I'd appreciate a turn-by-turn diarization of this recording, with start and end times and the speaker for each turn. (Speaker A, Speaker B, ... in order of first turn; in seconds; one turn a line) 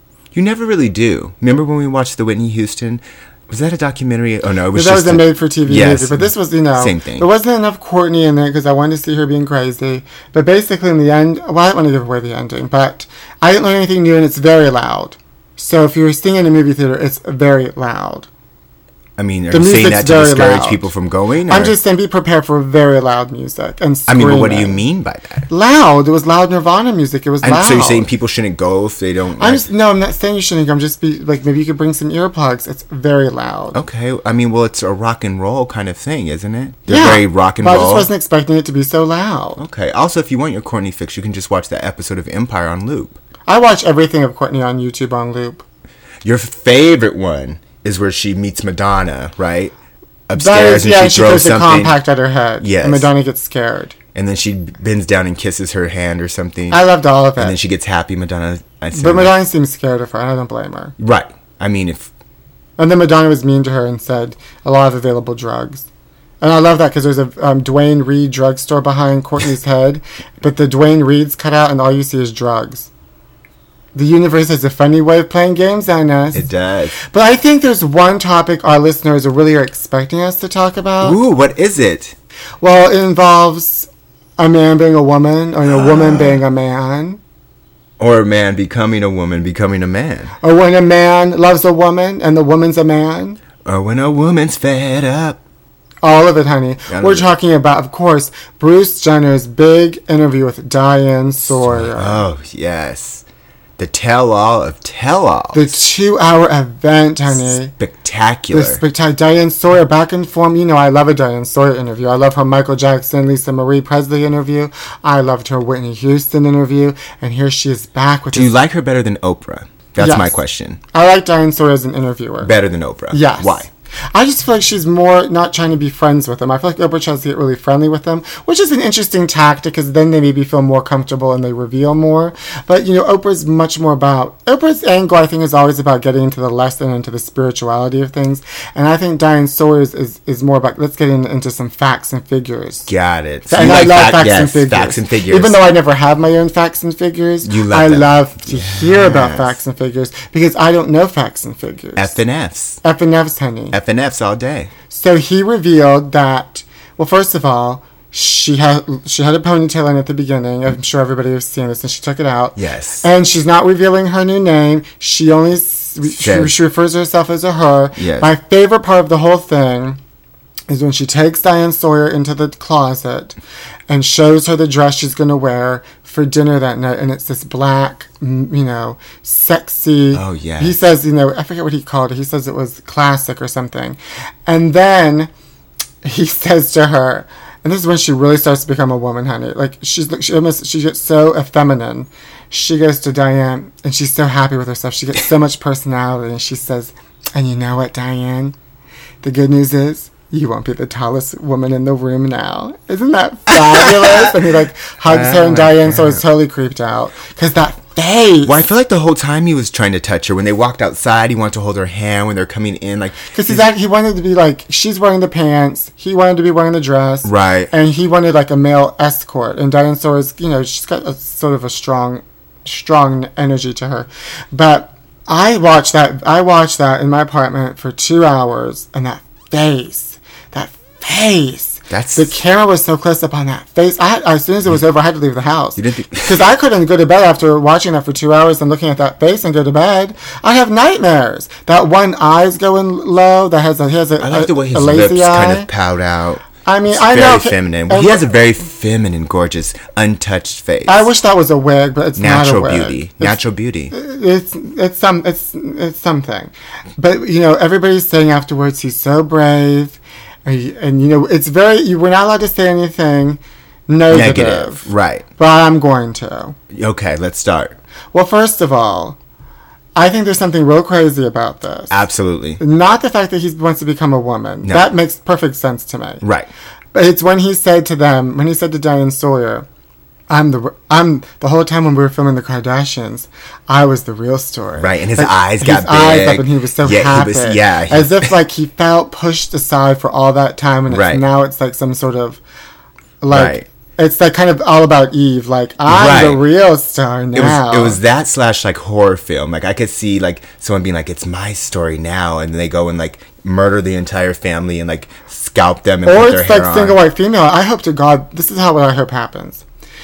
Speaker A: 0.3-7.3
Speaker B: 4.7-18.3
Speaker A: 19.2-21.8
Speaker B: 19.5-20.9
Speaker B: 21.5-24.8
Speaker A: 24.1-25.5
Speaker B: 25.5-28.1
Speaker A: 27.4-29.6
Speaker B: 29.4-33.8
Speaker A: 33.7-38.1
Speaker B: 36.9-39.6
Speaker A: 39.6-43.2
Speaker B: 43.5-45.6
Speaker A: 46.2-49.8
Speaker A: 50.3-52.0
Speaker B: 50.3-53.9
Speaker A: 52.6-53.1
Speaker A: 54.1-56.8
Speaker B: 56.7-57.6
Speaker A: 57.4-59.4
Speaker B: 58.9-60.9
Speaker A: 61.0-62.1
Speaker B: 62.8-65.9
Speaker B: 66.4-72.9
Speaker B: 73.9-76.5
Speaker A: 76.3-77.0
Speaker B: 77.1-81.2
Speaker A: 81.0-82.1
Speaker B: 82.6-87.2
Speaker A: 85.7-86.4
Speaker A: 88.0-90.3
Speaker B: 90.4-93.4
Speaker A: 93.6-95.4
Speaker B: 96.0-102.2
Speaker A: 96.9-97.3
Speaker A: 101.4-103.2
Speaker A: 103.8-105.7
Speaker B: 105.5-107.7
Speaker A: 107.3-108.8
Speaker B: 108.5-118.5
Speaker A: 118.3-120.8
Speaker B: 120.0-120.4
Speaker B: 120.9-122.5
Speaker A: 122.4-123.7
Speaker B: 123.1-142.9
Speaker A: 142.9-145.6
Speaker B: 143.5-152.2
Speaker A: 147.4-149.6
Speaker A: 152.0-152.8
Speaker B: 152.8-153.8
Speaker A: 153.7-154.7
Speaker B: 154.9-170.0
Speaker A: 162.6-163.1
Speaker A: 166.2-166.6
Speaker A: 168.0-168.3
Speaker B: 170.7-173.4
Speaker B: 173.9-185.3
Speaker A: 180.1-180.8
Speaker B: 186.0-198.5
Speaker B: 199.2-208.6
Speaker A: 203.5-204.3
Speaker A: 205.0-206.2
Speaker A: 208.4-213.7
Speaker B: 213.3-245.7
Speaker A: 217.2-217.7
Speaker A: 231.9-232.3
Speaker A: 235.8-236.5
Speaker A: 244.2-251.1
Speaker B: 246.6-248.2
Speaker B: 250.9-253.4
Speaker A: 252.2-253.9
Speaker B: 253.9-266.6
Speaker A: 264.1-265.3
Speaker A: 266.7-267.8
Speaker B: 268.1-269.2
Speaker B: 270.0-272.0
Speaker A: 271.9-272.6
Speaker B: 272.6-276.2
Speaker A: 274.6-274.9
Speaker A: 276.2-276.5
Speaker B: 276.9-279.6
Speaker B: 280.3-292.4
Speaker A: 284.8-288.3
Speaker A: 290.9-291.2
Speaker B: 293.2-298.0
Speaker A: 293.3-293.7
Speaker A: 295.9-296.4
Speaker A: 297.3-307.0
Speaker B: 306.0-309.6